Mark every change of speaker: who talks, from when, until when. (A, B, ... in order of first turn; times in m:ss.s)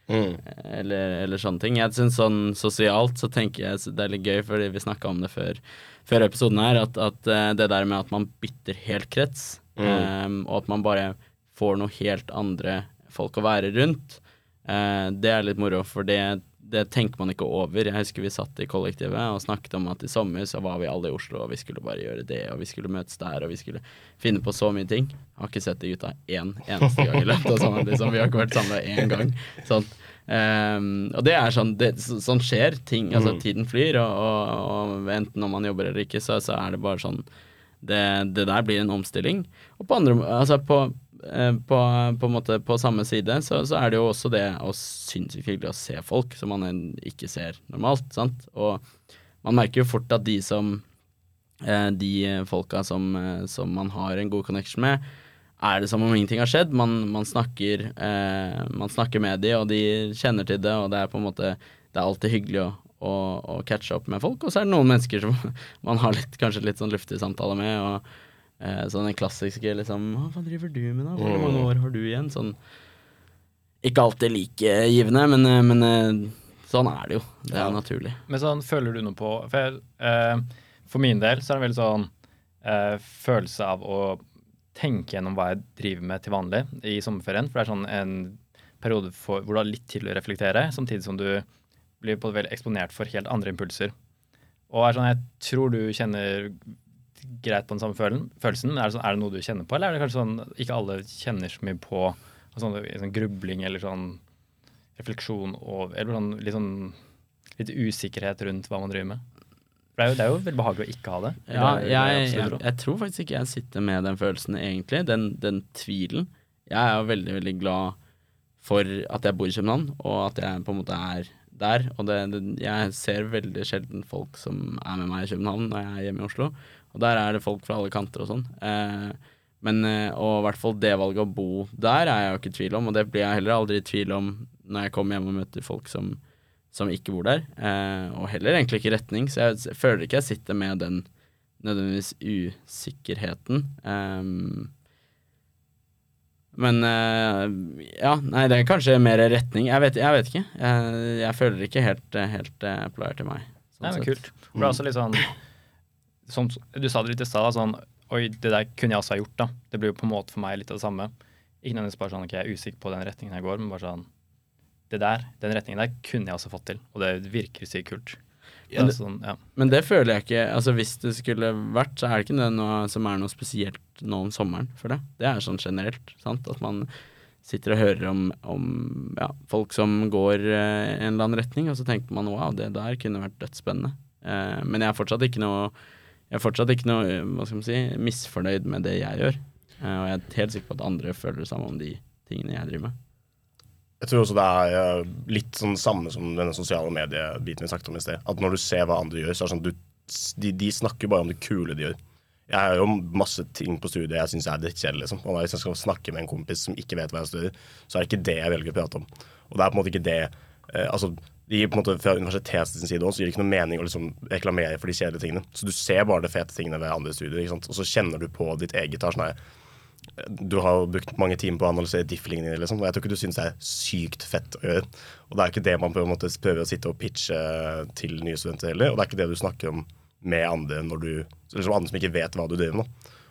0:00.1-0:00.4 A
0:00.4-0:37.3 B
0:09.8-0:10.1 A
0:33.1-0:33.4 A
0:37.8-0:48.8 B
0:49.4-0:50.8 B
0:51.6-0:55.0 B
0:55.6-1:08.0 B
1:08.6-1:12.6 B
1:11.2-1:11.7 A
1:13.8-1:18.2 B
1:17.5-1:17.8 A
1:18.3-1:22.1 C
1:22.6-1:31.5 C
1:32.0-1:33.9 C
1:34.7-1:36.7 C
1:37.2-1:44.2 C
1:45.0-1:47.0 C
1:47.6-1:49.2 C
1:50.0-1:52.6 C
1:51.5-1:58.0 B
1:58.6-2:16.2 B
2:16.7-2:21.1 B
2:21.6-2:24.7 B
2:26.5-2:34.2 B
2:33.8-2:35.3 C
2:36.3-2:41.1 C
2:41.6-2:44.1 C
2:44.9-2:48.2 C
2:48.7-2:49.4 C
2:49.6-2:56.9 B
2:57.4-3:05.7 B
3:06.3-3:13.0 B
3:14.0-3:22.0 A
3:22.5-3:39.4 A
3:40.2-3:52.9 A